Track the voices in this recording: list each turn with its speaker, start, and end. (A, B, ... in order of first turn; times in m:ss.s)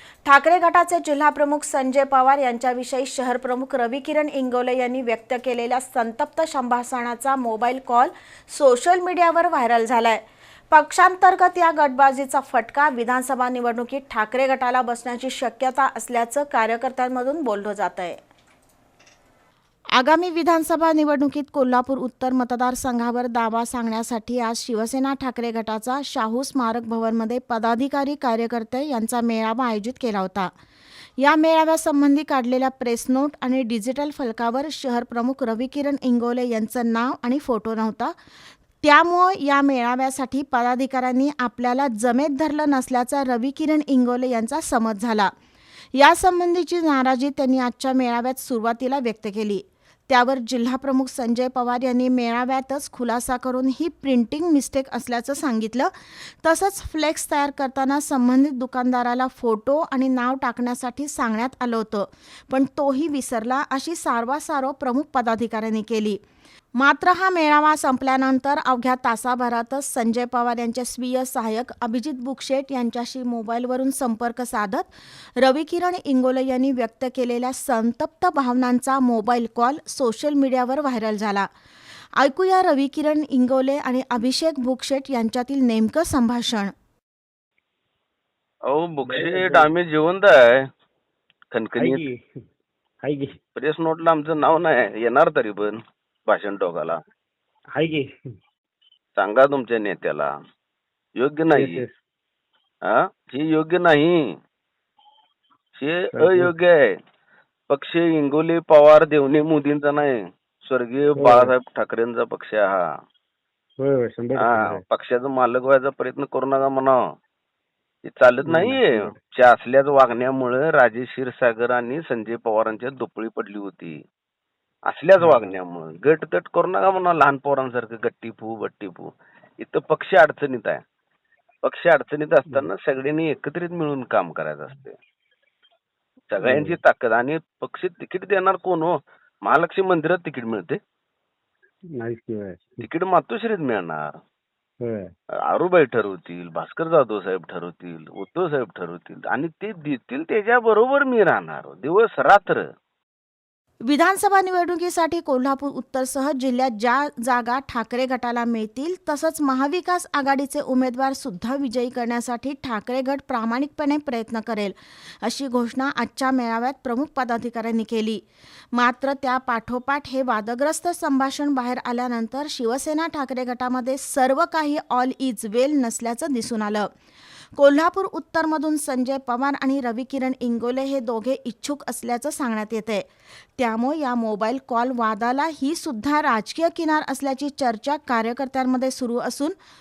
0:00.2-0:18.2 A
0:20.0-0:30.5 A
0:31.2-0:38.2 A
0:38.8-0:45.3 A
0:45.9-1:06.2 A
1:06.8-1:21.5 A
1:22.2-1:26.7 A
1:28.7-1:30.6 B
1:29.1-1:29.7 C
1:31.5-1:32.0 B
1:31.8-1:32.2 C
1:33.0-1:33.4 C
1:33.6-1:37.0 B
1:37.8-1:38.1 C
1:39.2-1:40.3 B
1:41.2-1:41.8 B
1:41.5-1:42.0 C
1:42.9-1:44.3 B
1:45.8-1:46.9 B
1:46.2-1:46.5 C
1:47.7-1:52.8 B
1:51.2-1:51.5 C
1:53.8-1:54.8 C
1:54.4-1:57.0 B
1:58.1-2:04.0 B
1:58.4-1:59.2 C
2:04.9-2:10.8 B
2:05.2-2:05.5 C
2:11.6-2:15.0 B
2:16.3-2:19.0 B
2:16.4-2:16.8 C
2:19.5-2:20.8 B
2:22.0-2:22.8 C
2:22.8-2:24.2 B
2:24.8-2:25.1 C
2:25.5-2:32.6 B
2:33.8-2:48.2 A
2:48.7-2:56.9 A
2:57.6-3:03.0 A
3:03.6-3:09.6 A